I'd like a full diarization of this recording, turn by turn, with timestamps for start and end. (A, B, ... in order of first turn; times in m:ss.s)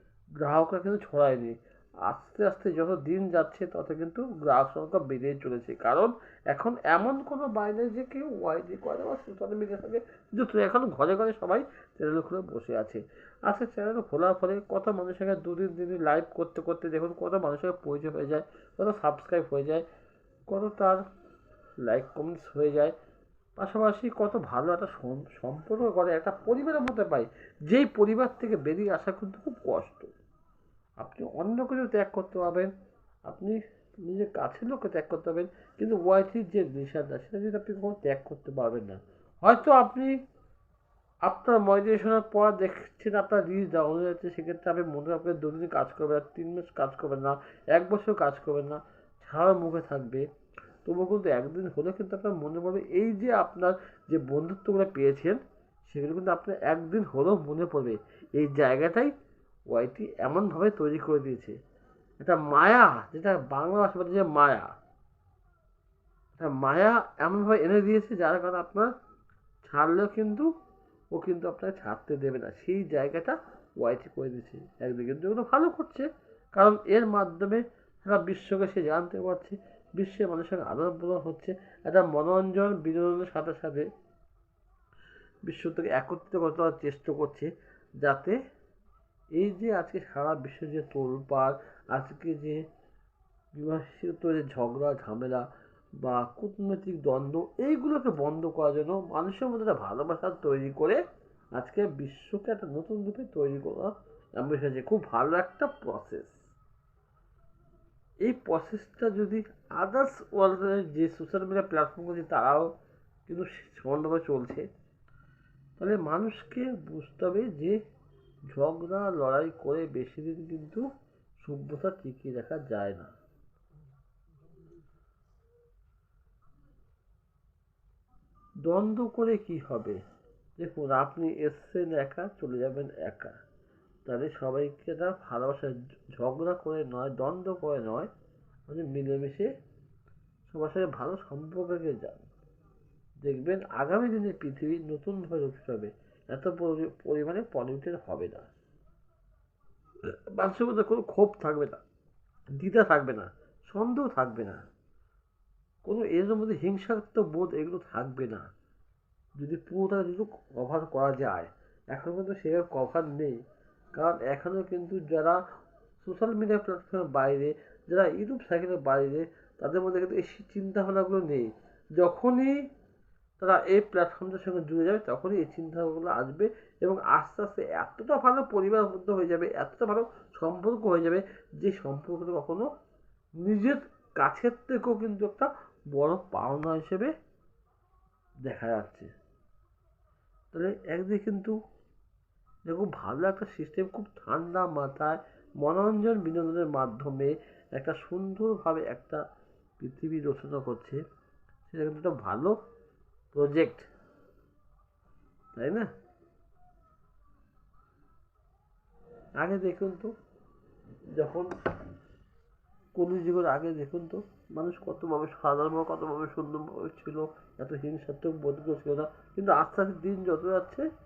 0:00.4-0:19.8 A
0:20.5-0:21.0 A
0:21.8-0:22.9 A
0:23.6-0:30.1 A
0:31.0-0:32.7 A
0:33.2-0:40.2 A
0:41.2-0:50.2 A
0:50.8-0:59.1 A
0:59.7-1:01.6 A
1:02.2-1:04.7 A
1:06.4-1:08.9 A
1:09.6-1:10.5 A
1:11.1-1:23.9 A
1:25.4-1:28.4 A
1:29.4-1:32.6 A
1:33.5-1:35.5 A
1:36.0-1:41.0 A
1:41.6-1:46.4 A
1:48.2-1:52.7 A
1:53.3-1:54.6 A
1:55.8-1:57.8 A
1:58.5-2:00.8 A
2:01.4-2:03.1 A
2:08.6-2:10.0 A
2:10.6-2:13.4 A
2:14.0-2:18.1 A
2:18.7-2:19.5 A
2:20.5-2:22.3 A
2:23.2-2:28.4 A
2:30.3-2:31.8 A
2:32.5-2:34.6 A
2:35.8-2:38.5 A
2:39.4-2:43.4 A
2:43.9-2:45.4 A
2:46.0-2:52.6 A
2:53.4-3:02.7 A
3:03.4-3:07.1 A
3:08.4-3:09.1 A
3:10.5-3:11.5 A
3:12.7-3:19.2 A
3:19.8-3:21.0 A
3:21.7-3:22.5 A
3:23.3-3:23.9 A
3:25.6-3:25.9 A
3:29.4-3:30.1 A
3:31.1-3:31.5 A
3:32.9-3:40.8 A